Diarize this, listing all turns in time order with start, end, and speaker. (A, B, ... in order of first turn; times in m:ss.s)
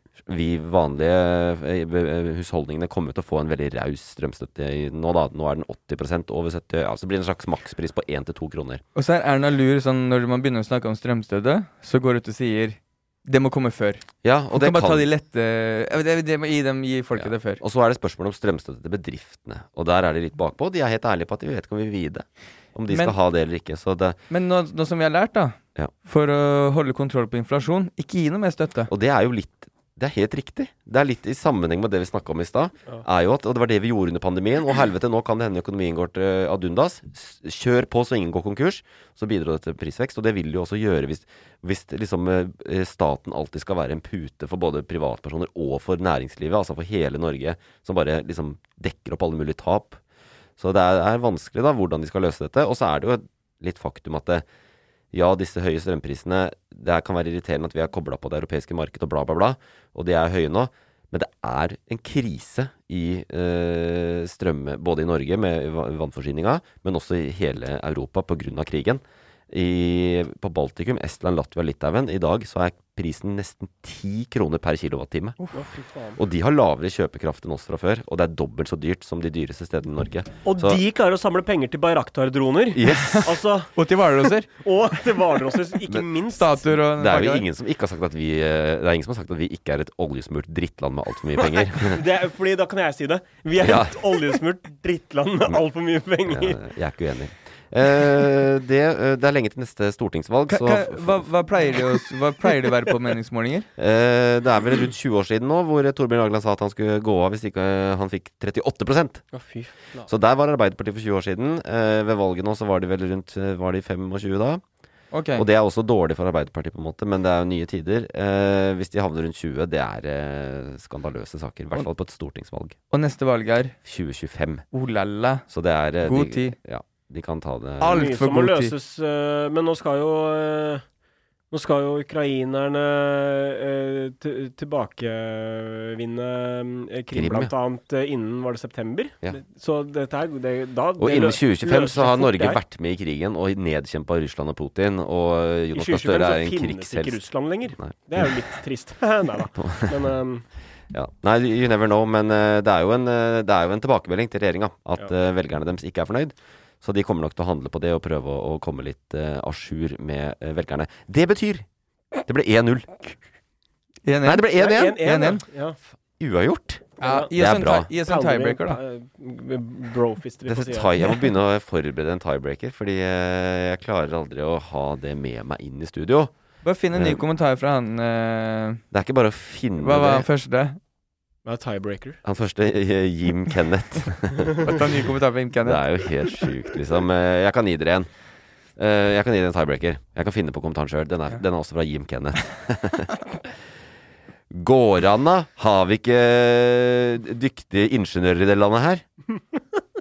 0:00.2-0:08.8 A
0:08.9-0:17.6 B
0:14.2-0:15.1 A
0:17.2-0:24.2 A
0:22.9-0:23.1 B
0:24.3-0:28.9 B
0:28.9-0:50.0 A
0:50.6-0:54.4 A
0:55.1-1:15.4 A
1:15.5-1:16.2 C
1:16.2-1:20.8 A
1:20.4-1:23.8 C
1:22.7-1:23.3 A
1:23.7-1:24.5 B
1:24.5-1:26.6 C
1:26.3-1:27.4 B
1:27.0-1:32.0 A
1:31.4-1:36.6 C
1:33.6-1:34.0 A
1:36.2-1:41.2 A
1:40.5-1:43.7 B
1:43.8-1:49.4 A
1:49.3-1:50.1 C
1:50.0-1:54.6 A
1:55.1-1:55.4 B
1:55.3-2:02.8 A
2:02.9-2:03.8 B
2:03.8-2:04.6 A
2:04.7-2:05.4 B
2:05.5-2:08.1 A
2:06.0-2:06.6 B
2:07.8-2:08.7 B
2:07.9-2:10.8 C
2:11.5-2:22.6 C
2:17.1-2:17.5 A
2:21.0-2:27.2 A
2:25.7-2:30.4 C
2:27.8-2:28.3 A
2:29.6-2:30.1 A
2:30.9-2:41.6 A
2:42.2-2:43.2 A
2:44.0-2:45.4 B
2:44.2-2:45.3 A
2:44.6-2:45.8 C
2:46.2-2:47.9 A
2:47.0-2:48.8 B
2:47.0-2:47.3 C
2:47.9-2:51.1 C
2:50.5-2:56.3 A
2:56.6-2:58.8 B
2:56.9-2:57.2 A
2:58.9-3:00.2 A
2:59.8-3:00.8 B
3:01.4-3:02.2 C
3:02.2-3:04.7 A
3:04.6-3:05.9 B
3:05.6-3:08.1 A
3:08.8-3:13.3 A
3:14.5-3:19.0 A